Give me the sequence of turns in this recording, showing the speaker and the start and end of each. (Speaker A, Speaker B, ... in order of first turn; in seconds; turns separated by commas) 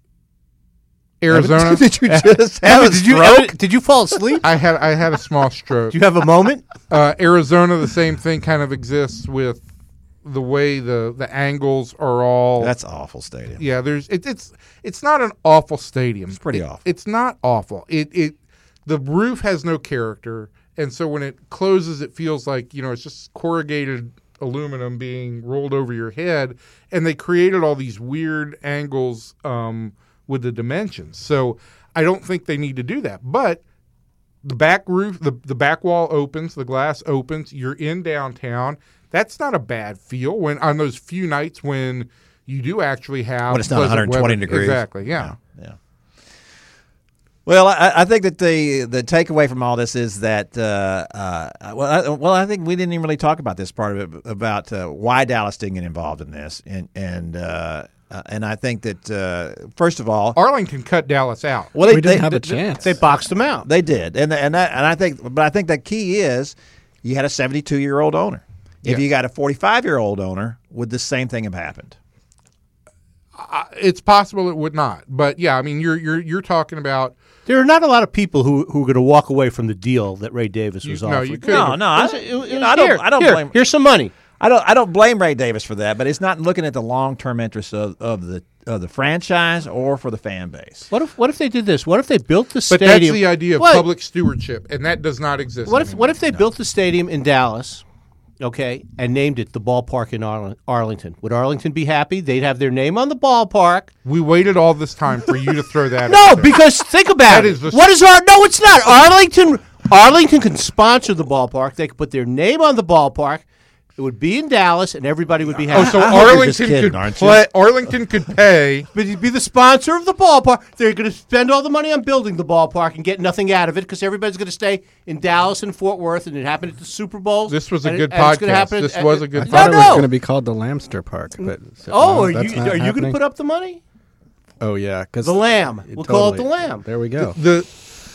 Speaker A: 1.2-1.8, Speaker B: 1.3-3.5, Speaker C: 2.1-4.5, Speaker B: 4.1-4.4, Speaker A: 4.4-6.0, Speaker C: 5.9-6.6, Speaker A: 6.9-9.6, Speaker A: 10.2-12.7, Speaker B: 12.6-13.6, Speaker A: 13.6-33.6, Speaker B: 16.3-16.8, Speaker A: 34.4-45.3, Speaker B: 43.5-45.8, Speaker B: 47.5-60.4, Speaker A: 60.3-61.7, Speaker C: 61.8-63.6, Speaker B: 61.8-62.6, Speaker D: 61.9-62.9, Speaker B: 63.6-72.0, Speaker A: 73.4-77.1, Speaker C: 77.5-84.1, Speaker A: 80.8-81.8, Speaker B: 81.5-83.6, Speaker B: 84.4-90.9, Speaker C: 90.9-93.8, Speaker A: 92.7-96.2, Speaker C: 95.7-97.8, Speaker C: 98.4-103.9, Speaker A: 104.0-106.6, Speaker C: 106.1-113.4, Speaker A: 107.2-107.8, Speaker C: 114.0-116.4, Speaker B: 115.6-117.4, Speaker A: 115.7-118.9, Speaker C: 118.9-130.1, Speaker A: 127.5-130.0, Speaker D: 129.3-133.2, Speaker C: 131.4-133.8, Speaker D: 134.6-137.4, Speaker C: 135.2-136.8, Speaker A: 137.2-137.8